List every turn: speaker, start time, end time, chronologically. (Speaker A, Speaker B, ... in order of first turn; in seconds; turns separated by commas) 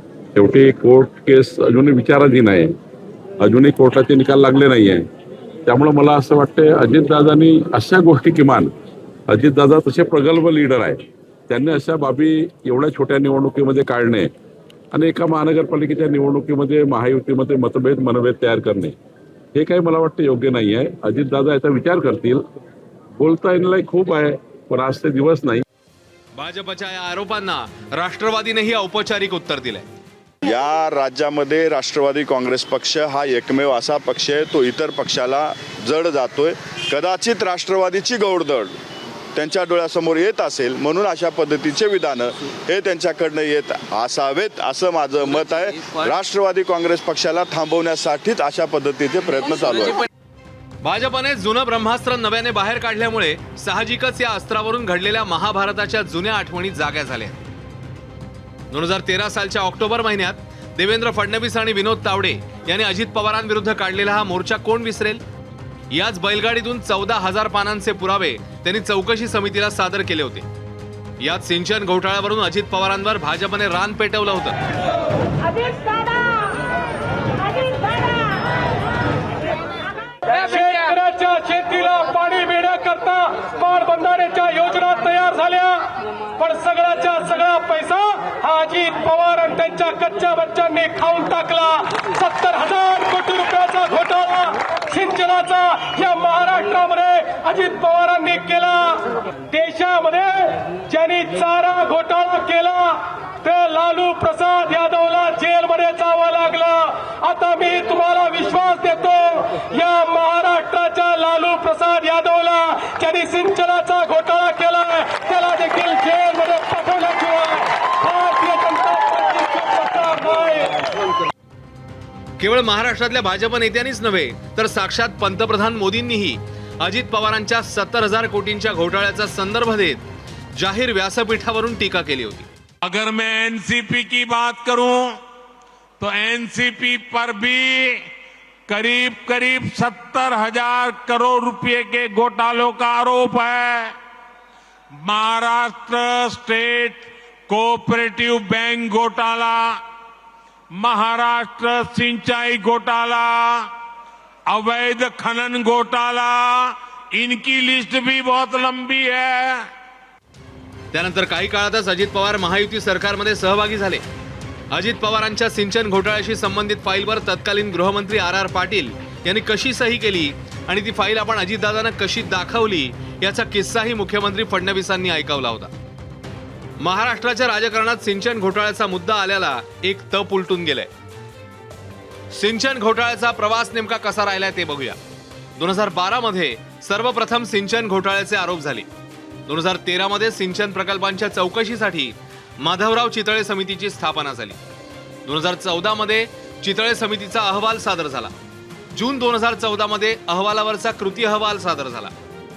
Speaker A: 0.3-2.7, Speaker A: 3.4-5.0, Speaker A: 5.7-8.7, Speaker A: 9.3-11.0, Speaker A: 11.5-14.3, Speaker A: 14.9-18.9, Speaker A: 19.5-22.4, Speaker A: 23.2-25.6, Speaker B: 26.4-29.9, Speaker C: 30.4-38.7, Speaker C: 39.3-50.0, Speaker B: 50.8-57.4, Speaker B: 58.7-65.2, Speaker B: 65.9-70.4, Speaker B: 71.2-74.6, Speaker D: 80.3-85.8, Speaker D: 86.4-120.8, Speaker B: 122.4-130.0, Speaker B: 130.6-132.5, Speaker E: 132.8-135.2, Speaker E: 136.0-138.1, Speaker E: 138.7-143.9, Speaker E: 145.0-149.8, Speaker E: 150.7-153.7, Speaker E: 154.5-159.7, Speaker B: 160.9-164.0, Speaker B: 164.7-175.7, Speaker B: 176.8-180.9, Speaker B: 182.3-185.0, Speaker B: 185.6-188.9, Speaker B: 189.5-194.6, Speaker B: 195.2-198.3, Speaker B: 198.9-202.1